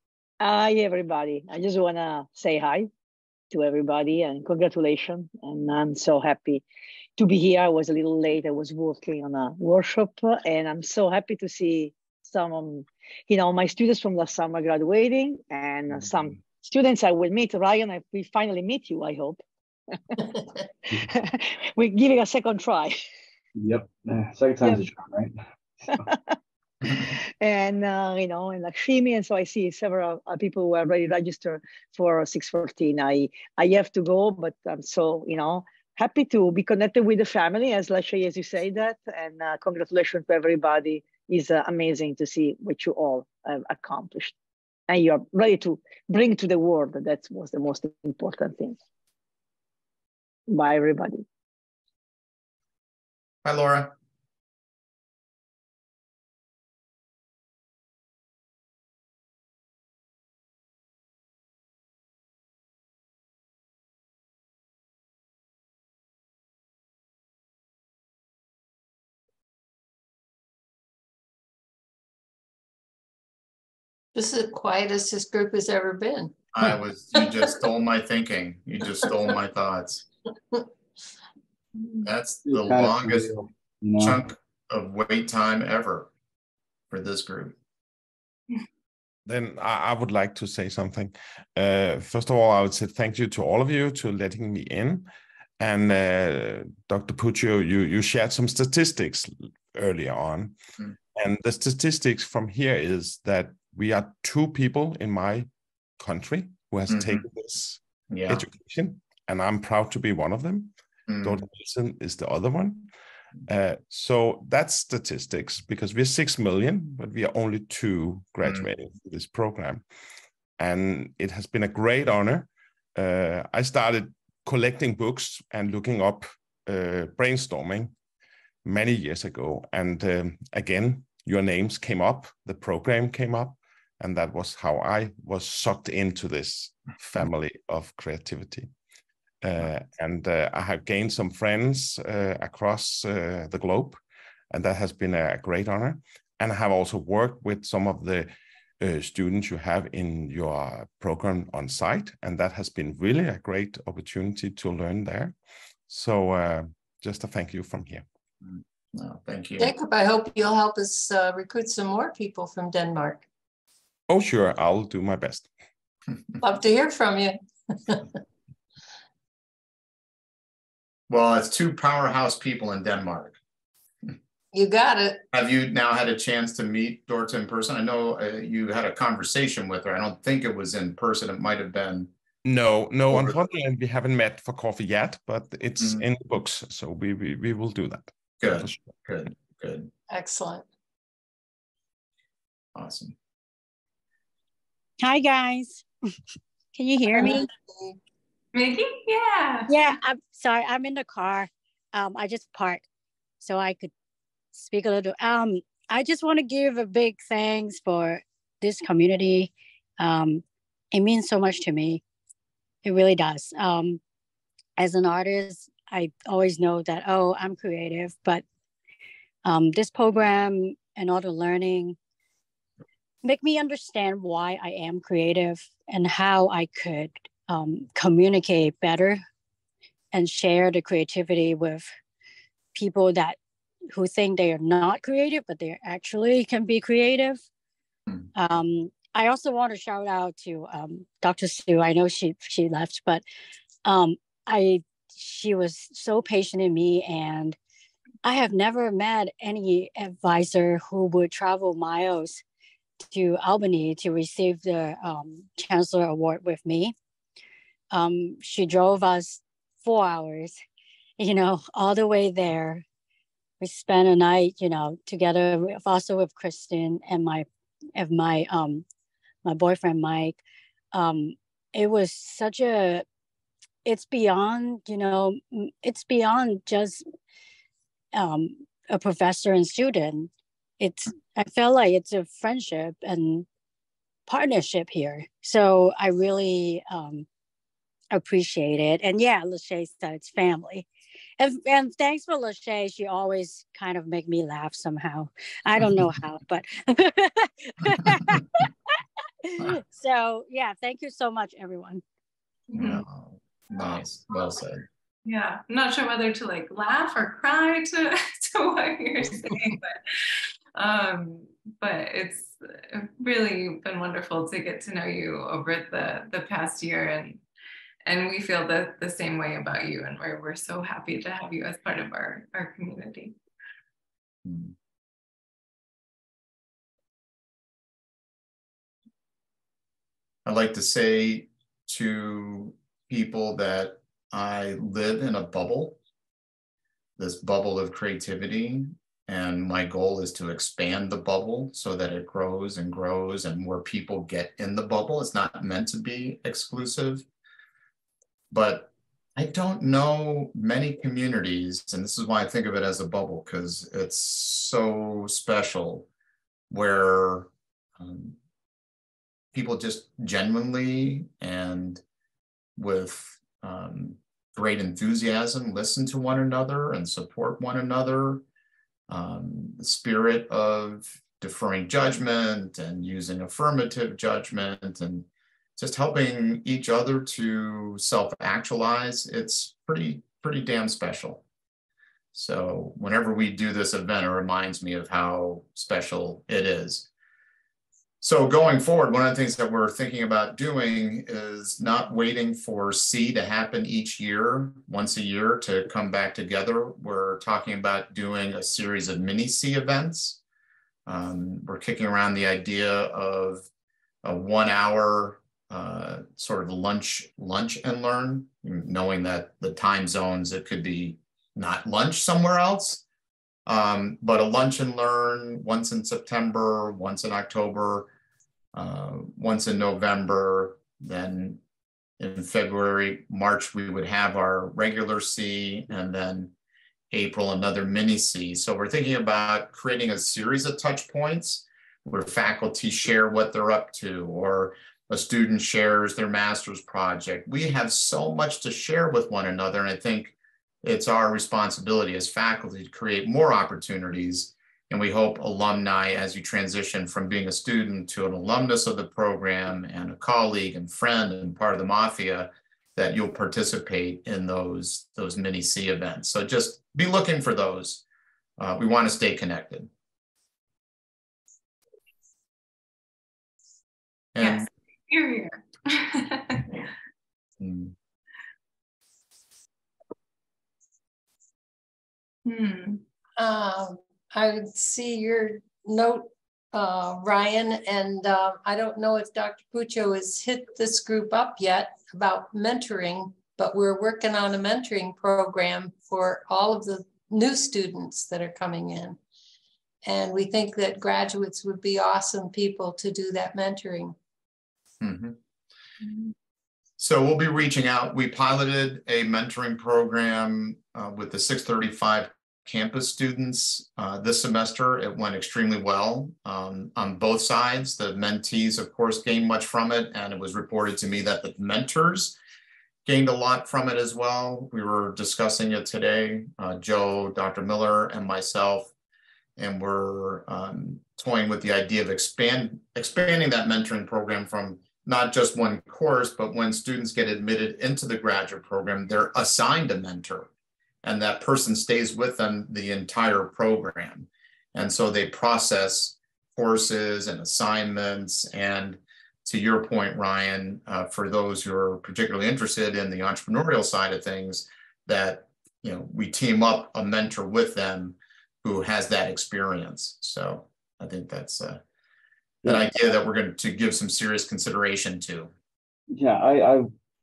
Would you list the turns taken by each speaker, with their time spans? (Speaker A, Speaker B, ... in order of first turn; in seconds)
Speaker A: 0.4-2.9, 3.5-6.6, 7.2-19.4, 20.9-23.0, 25.9-26.3, 26.9-44.4, 44.9-48.8, 50.5-51.2
Speaker B: 23.6-25.4, 82.5-84.2, 556.1-556.9
Speaker C: 53.5-54.0, 76.5-80.0, 82.0-83.3, 84.0-86.1, 86.9-87.5, 106.9-107.2, 108.1-108.4, 111.1-111.4, 158.4-159.7, 171.1-173.4, 175.3-182.1, 183.1-183.4, 185.8-186.0, 188.4-189.9, 192.8-193.2, 302.7-304.9, 324.4-324.7, 330.5-336.0, 337.2-347.2, 348.5-356.1, 356.7-358.4, 359.5-362.0, 362.8-368.4, 369.1-381.4, 382.3-387.1, 388.2-400.4, 401.1-403.7, 404.2-413.0, 413.7-418.1, 418.7-421.6, 422.2-426.5, 427.1-458.0, 458.6-459.9, 464.4-464.7, 467.6-467.9, 495.0-495.4, 497.0-512.4, 513.0-518.9, 519.6-530.5, 531.0-551.8, 552.6-555.5
Speaker D: 74.2-76.3, 159.6-163.2, 166.4-168.0, 174.5-175.2, 190.1-190.6, 197.1-198.0, 473.4-489.2, 490.0-494.1
Speaker E: 89.3-95.1, 95.6-100.6, 101.2-110.7, 111.2-112.9, 113.5-119.8, 120.6-127.9, 128.7-138.7, 139.4-155.4, 155.9-158.0, 164.1-165.5, 182.5-188.9
Speaker F: 195.0-195.8, 196.8-197.5, 199.7-202.8, 203.4-203.9, 204.5-212.0, 212.8-214.0, 214.8-218.4, 219.4-222.0, 223.2-229.2, 230.1-231.9, 232.8-233.4, 233.9-237.4, 238.3-243.2, 243.8-247.6, 248.2-252.4, 253.1-256.9, 257.9-260.6, 261.2-262.9, 263.6-268.9, 269.4-270.4, 270.9-273.1, 273.9-277.1, 278.1-283.5, 284.3-287.3, 288.1-290.9, 291.4-298.6, 299.6-302.0
Speaker G: 198.5-199.7, 302.7-303.0, 305.3-317.4, 318.1-323.4, 464.4-466.8, 472.5-473.0